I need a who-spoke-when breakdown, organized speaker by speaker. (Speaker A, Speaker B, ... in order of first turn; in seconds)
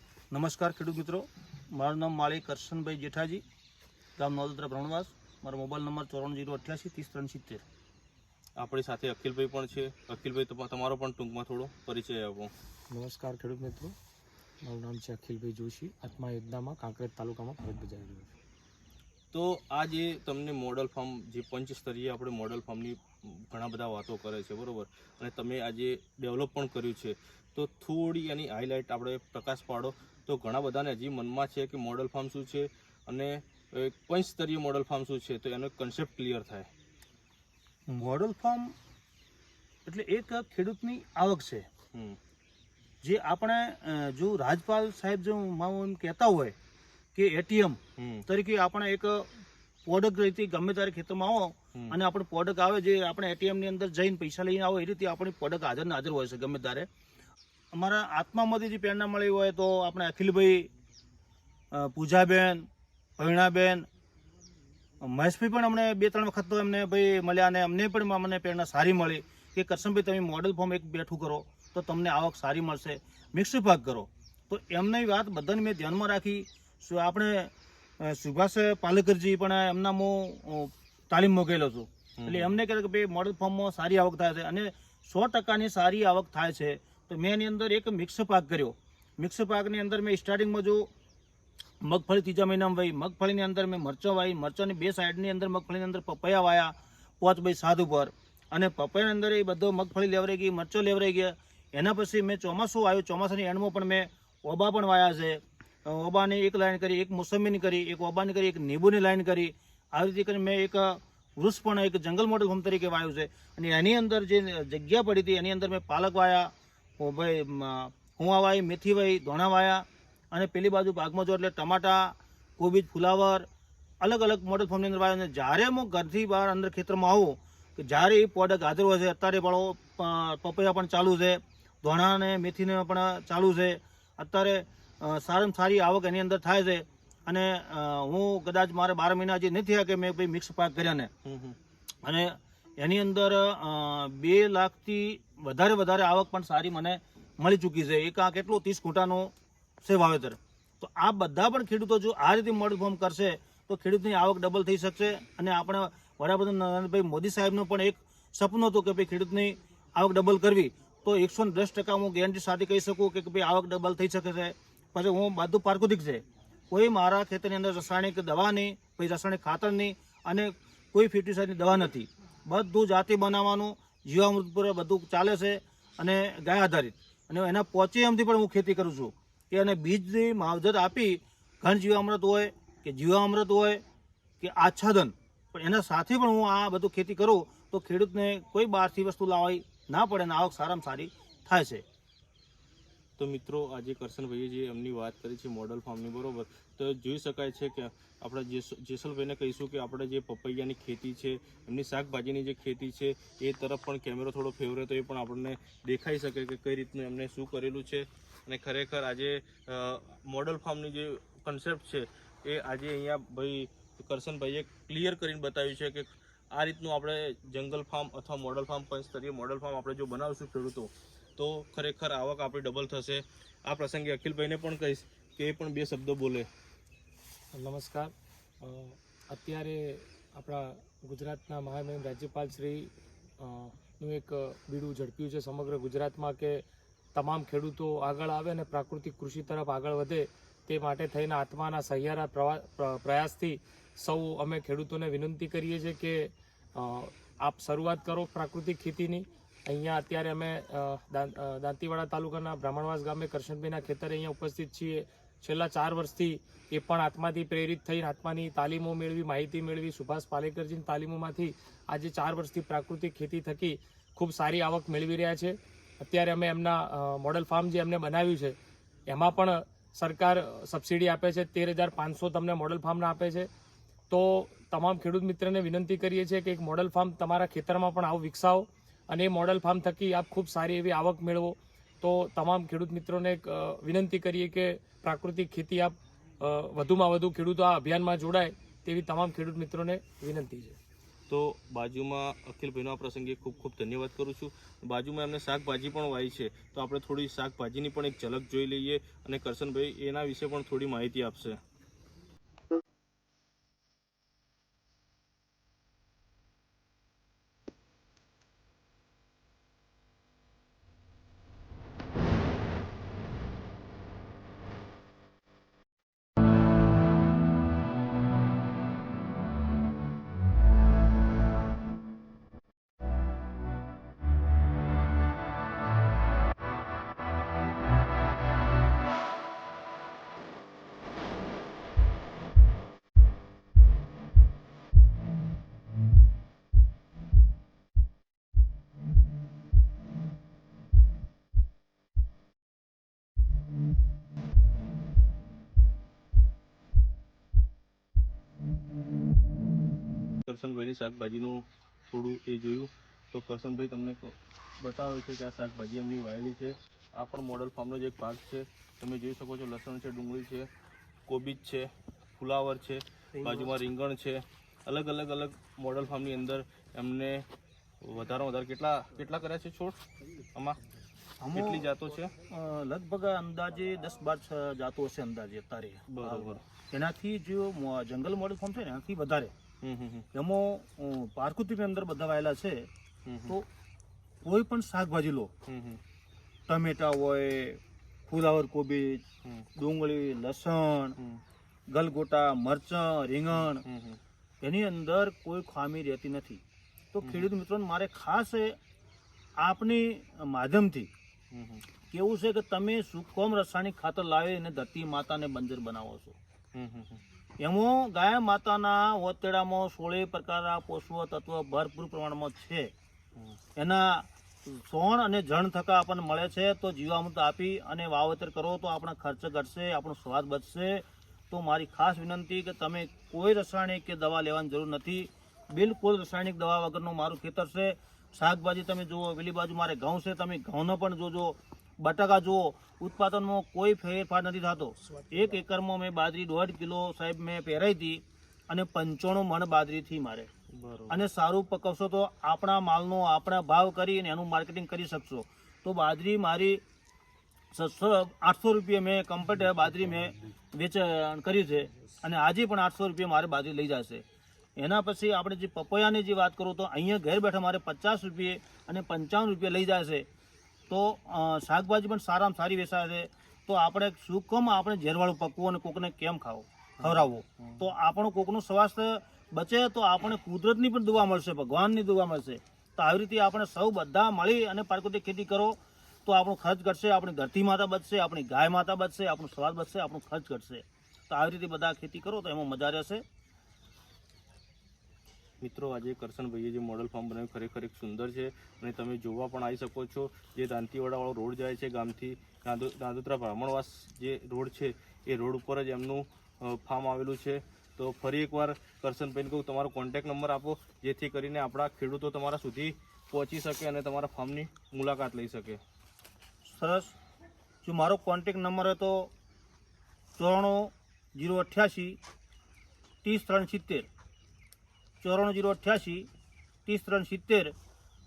Speaker A: 0.3-3.4, 4.2-7.6, 37.9-38.7, 39.9-41.7, 43.0-46.5, 47.1-49.3, 49.9-56.9, 57.7-60.7, 61.7-62.7, 63.2-63.9, 65.0-90.9, 91.8-123.5, 124.0-141.1, 142.0-149.3, 149.8-183.8, 184.4-191.8, 363.4-363.7, 371.4-371.9, 372.5-379.5, 380.3-382.9, 384.4-385.5, 386.7-389.2, 389.8-391.2, 391.9-393.9, 394.6-396.6, 397.1-398.8, 399.6-401.1, 402.1-406.4, 407.6-412.9, 413.8-440.5, 441.1-446.8, 447.7-454.2, 454.8-460.2, 460.9-483.2, 506.7-507.1, 507.8-509.3, 510.4-512.2, 513.2-514.1, 515.2-516.3, 516.9-517.7
Speaker B: 8.6-12.5, 19.3-36.7, 41.9-42.2, 48.0-48.3, 82.2-82.6, 141.2-141.6, 193.2-226.5, 291.3-301.6, 350.4-360.7, 361.3-367.5, 368.0-370.0, 370.5-370.8, 371.5-372.3, 376.1-376.6, 379.8-380.3, 383.2-383.6, 385.7-386.0, 393.6-394.2, 397.2-397.5, 401.5-401.9, 406.7-407.2, 440.7-441.2, 467.0-467.8, 485.6-505.8
Speaker C: 12.9-13.9, 14.6-18.3, 227.5-236.6, 237.2-268.6, 269.1-273.5, 274.1-290.8